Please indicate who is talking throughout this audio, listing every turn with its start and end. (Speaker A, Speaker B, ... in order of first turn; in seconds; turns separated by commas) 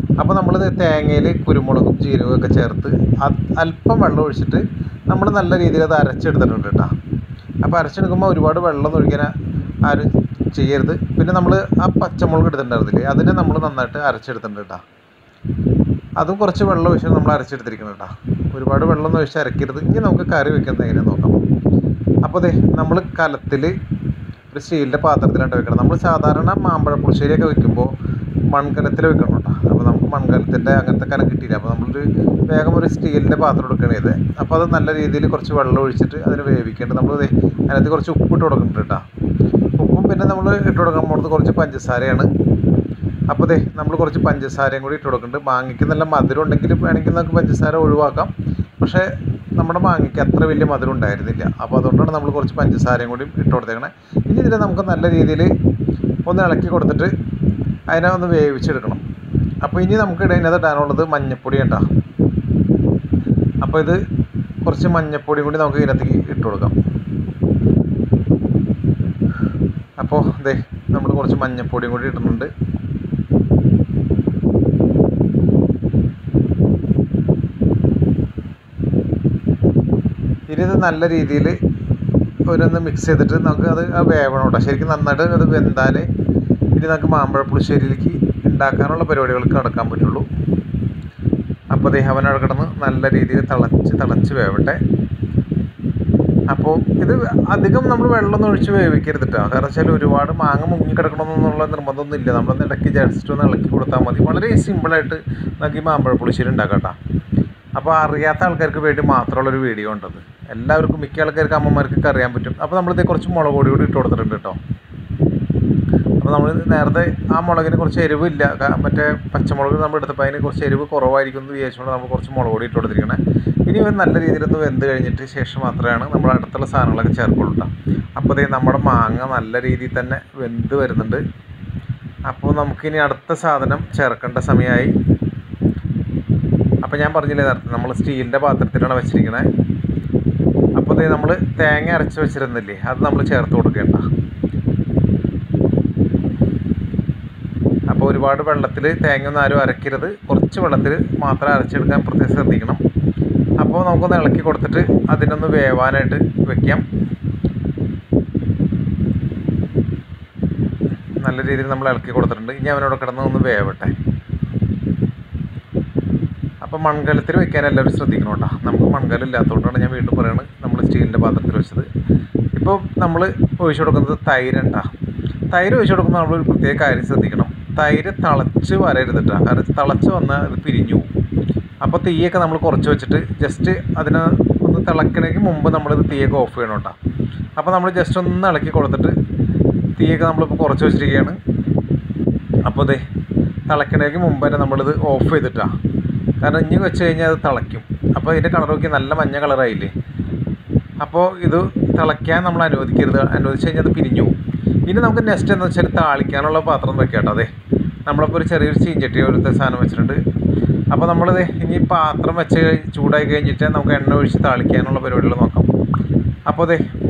Speaker A: 0.2-6.9, Speaker A: 7.6-9.3, Speaker A: 9.8-14.8, Speaker A: 16.2-21.4, Speaker A: 22.2-23.7, Speaker A: 24.5-27.9, Speaker A: 28.5-39.0, Speaker A: 39.8-42.3, Speaker A: 43.3-55.5, Speaker A: 56.2-57.1, Speaker A: 57.9-59.0, Speaker A: 59.6-61.8, Speaker A: 63.6-64.0, Speaker A: 64.6-66.7, Speaker A: 70.0-72.5, Speaker A: 80.5-81.6, Speaker A: 82.5-86.1, Speaker A: 86.8-90.3, Speaker A: 91.7-94.8, Speaker A: 96.5-107.0, Speaker A: 107.8-114.6, Speaker A: 116.2-131.2, Speaker A: 132.3-134.9, Speaker A: 136.8-139.5, Speaker A: 140.8-144.0, Speaker A: 147.9-152.8, Speaker A: 153.6-156.8, Speaker A: 161.2-163.9, Speaker A: 166.6-171.9, Speaker A: 172.6-174.8, Speaker A: 175.5-181.1, Speaker A: 181.8-186.9, Speaker A: 187.6-189.1, Speaker A: 190.0-191.4, Speaker A: 192.7-193.0, Speaker A: 193.7-195.7, Speaker A: 196.4-199.9, Speaker A: 201.0-204.3, Speaker A: 204.8-207.5, Speaker A: 208.1-210.2, Speaker A: 210.9-215.7, Speaker A: 216.5-216.8